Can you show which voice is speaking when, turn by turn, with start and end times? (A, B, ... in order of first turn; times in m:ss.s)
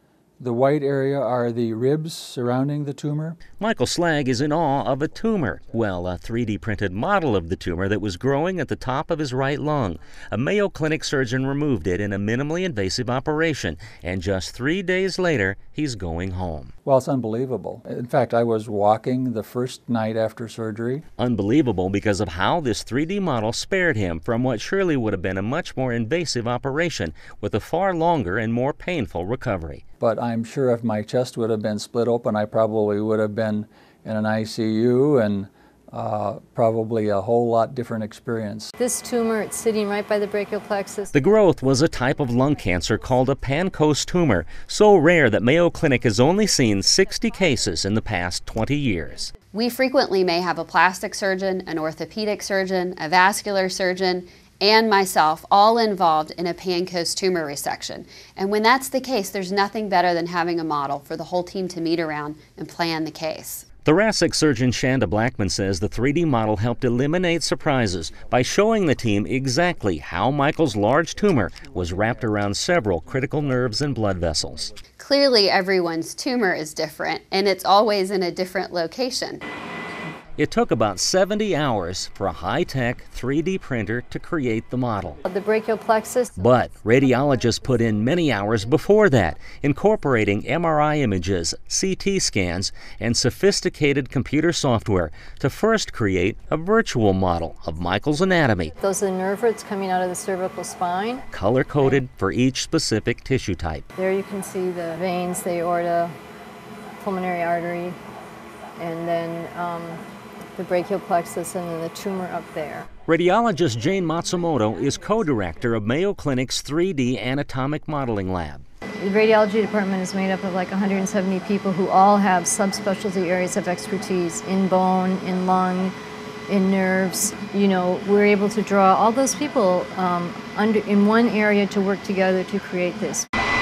0:00.4-0:03.4 A
0:03.6-0:16.7 B
0:16.8-0:21.0 A
0:21.2-0:29.8 B
0:30.0-0:38.7 A
0:38.8-0:41.1 C
0:41.1-0:49.3 B
0:49.5-1:03.7 D
1:03.8-1:14.7 B
1:15.0-1:19.4 D
1:20.4-1:25.2 B
1:25.2-1:26.4 C
1:26.3-1:38.7 B
1:38.8-1:41.2 C
1:41.3-1:43.8 B
1:44.0-1:46.1 C
1:47.0-1:48.0 C
1:48.8-1:50.0 C
1:50.6-1:52.9 C
1:53.1-1:58.6 B
1:59.0-2:05.9 C
2:06.5-2:13.2 C